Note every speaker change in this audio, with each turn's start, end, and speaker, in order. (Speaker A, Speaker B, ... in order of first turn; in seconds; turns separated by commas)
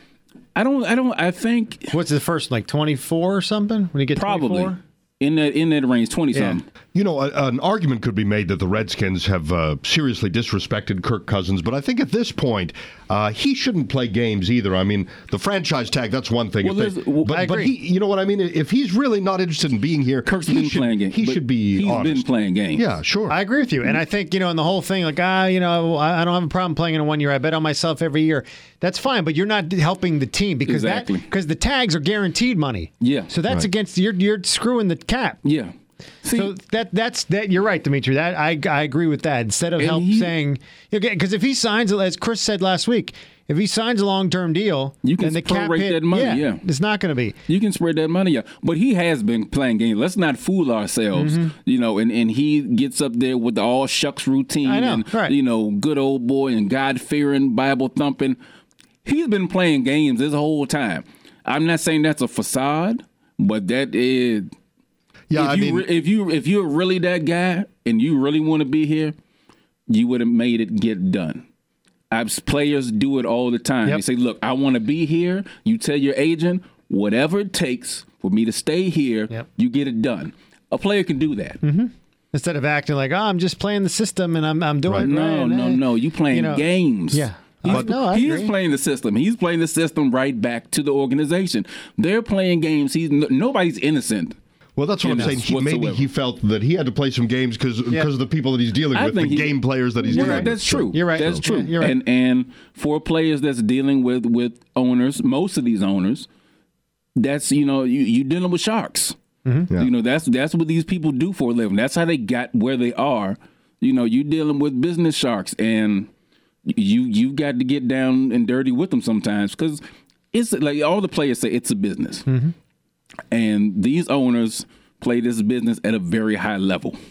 Speaker A: 0.6-1.9, Speaker B: 1.9-4.8, Speaker A: 4.2-6.6, Speaker B: 6.3-6.6, Speaker C: 6.9-22.2, Speaker A: 16.6-17.4, Speaker B: 17.3-17.7, Speaker A: 20.2-22.8, Speaker C: 22.7-23.4, Speaker B: 23.3-35.4, Speaker A: 30.6-31.3, Speaker A: 33.0-33.3, Speaker A: 35.4-35.7, Speaker A: 36.2-36.5, Speaker B: 36.3-47.4, Speaker A: 39.8-40.3, Speaker A: 45.0-46.6, Speaker A: 47.5-58.4, Speaker B: 51.1-51.5, Speaker B: 54.6-55.3, Speaker A: 59.0-64.5, Speaker C: 65.3-65.8, Speaker A: 65.3-69.1, Speaker A: 69.9-71.4, Speaker A: 72.1-81.6, Speaker B: 81.6-88.5, Speaker A: 85.0-94.3, Speaker C: 87.7-87.9, Speaker C: 94.8-101.4, Speaker A: 95.0-96.1, Speaker B: 95.1-95.3, Speaker A: 98.9-106.3, Speaker B: 100.1-102.0, Speaker A: 107.2-109.2, Speaker B: 109.4-109.7, Speaker A: 109.8-116.1, Speaker A: 116.7-119.8, Speaker A: 120.3-122.2, Speaker B: 122.3-122.5, Speaker A: 123.3-127.0